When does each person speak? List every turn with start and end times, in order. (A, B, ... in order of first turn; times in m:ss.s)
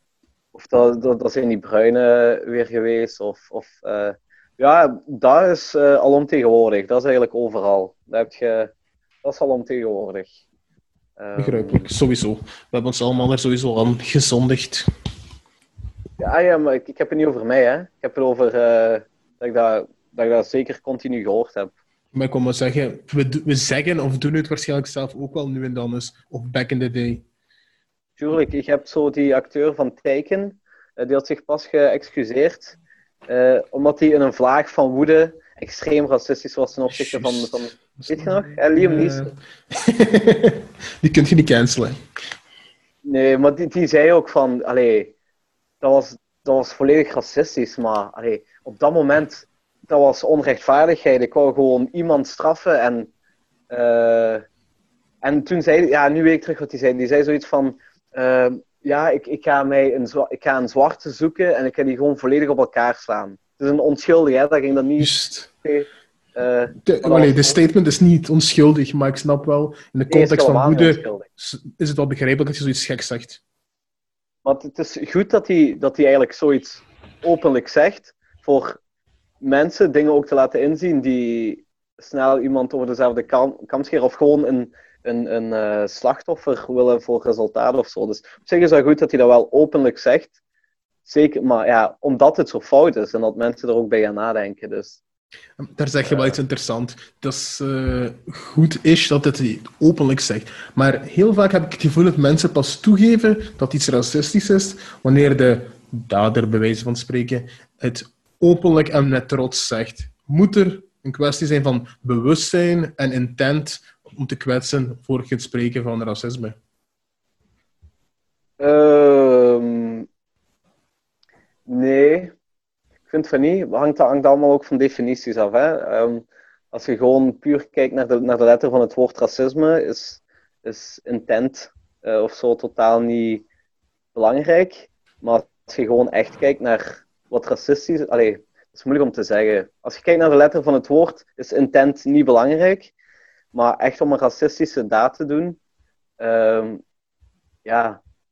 0:00.5-0:08.7 A
0:09.2-0:10.3 A
0:11.2-0:11.9 A
0:11.4-0:14.8 B
0:16.2-0:21.7 A
0:22.1-0:27.2 B
0:28.2-0:39.3 A
0:36.9-0:42.0 B
0:43.0-0:45.1 A
0:45.8-0:53.1 A
0:53.7-0:54.4 A
0:55.2-1:07.6 A
1:05.0-1:05.5 B
1:06.8-1:13.4 B
1:10.1-1:11.3 A
1:14.4-1:18.8 A
1:19.4-1:30.4 A
1:31.0-1:35.0 A
1:35.6-1:56.6 B
1:36.0-1:36.4 A
1:58.6-2:00.1 A
2:01.7-2:02.3 A
2:03.1-2:13.5 A
2:14.2-2:22.9 A
2:23.5-2:25.6 A
2:26.2-2:26.8 A
2:27.6-2:28.0 A